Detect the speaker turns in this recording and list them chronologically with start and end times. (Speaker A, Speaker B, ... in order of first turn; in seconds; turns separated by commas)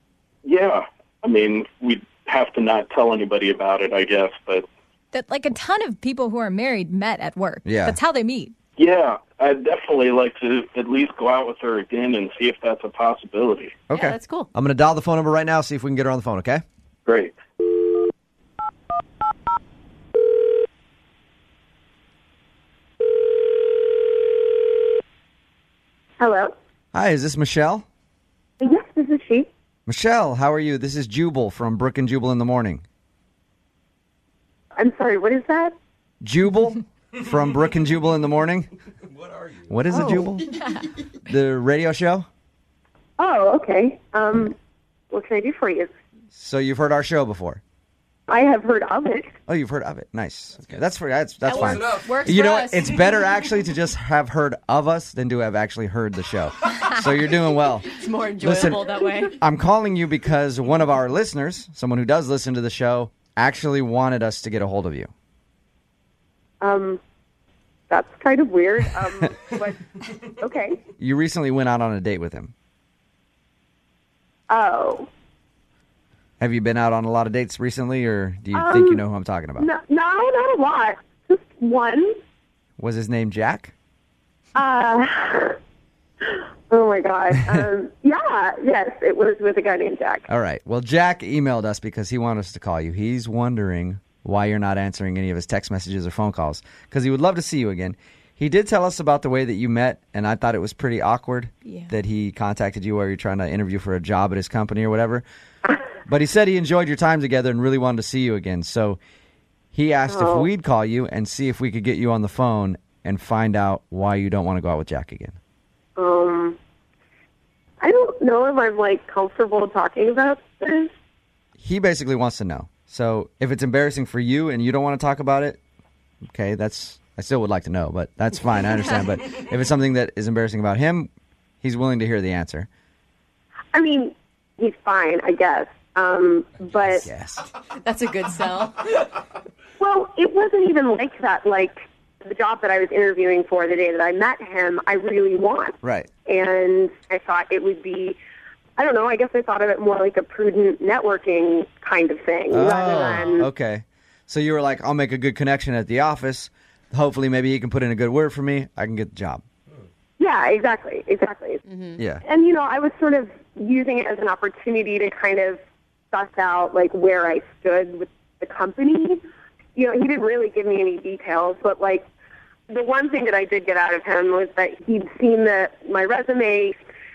Speaker A: 0.4-4.7, Speaker B: 5.1-8.6, Speaker C: 7.6-8.0, Speaker A: 8.8-13.8, Speaker C: 13.9-16.6, Speaker D: 13.9-14.5, Speaker A: 17.1-17.4, Speaker E: 26.2-26.5, Speaker C: 26.9-27.9, Speaker E: 28.6-29.5, Speaker C: 29.9-32.8, Speaker E: 34.8-35.7, Speaker C: 36.2-38.7, Speaker C: 39.7-40.5, Speaker C: 41.2-42.3, Speaker E: 43.2-44.5, Speaker E: 45.1-45.9, Speaker C: 46.4-47.6, Speaker E: 48.3-49.3, Speaker C: 49.5-58.8, Speaker D: 51.5-53.2, Speaker D: 57.9-59.4, Speaker C: 59.4-65.1, Speaker E: 66.6-67.0, Speaker E: 67.9-70.8, Speaker C: 71.0-72.5, Speaker E: 74.5-75.1, Speaker C: 76.4-79.7, Speaker E: 78.5-79.0, Speaker E: 79.6-82.2, Speaker C: 82.8-83.7, Speaker E: 84.6-85.6, Speaker E: 86.3-90.3, Speaker C: 90.3-105.2, Speaker C: 106.1-109.0, Speaker C: 109.7-115.4, Speaker E: 110.1-110.5, Speaker E: 116.0-116.6, Speaker E: 117.8-120.9, Speaker C: 121.6-125.6, Speaker C: 126.3-131.1, Speaker C: 131.6-132.7, Speaker E: 133.7-137.1, Speaker C: 137.0-137.5, Speaker D: 137.8-139.1, Speaker E: 139.8-148.2, Speaker C: 145.8-146.1, Speaker E: 148.8-153.5, Speaker C: 152.5-159.4, Speaker E: 160.2-161.6, Speaker D: 161.7-162.0, Speaker C: 162.0-162.2, Speaker E: 162.2-165.6, Speaker E: 166.1-169.2, Speaker E: 169.8-172.1, Speaker E: 172.7-176.8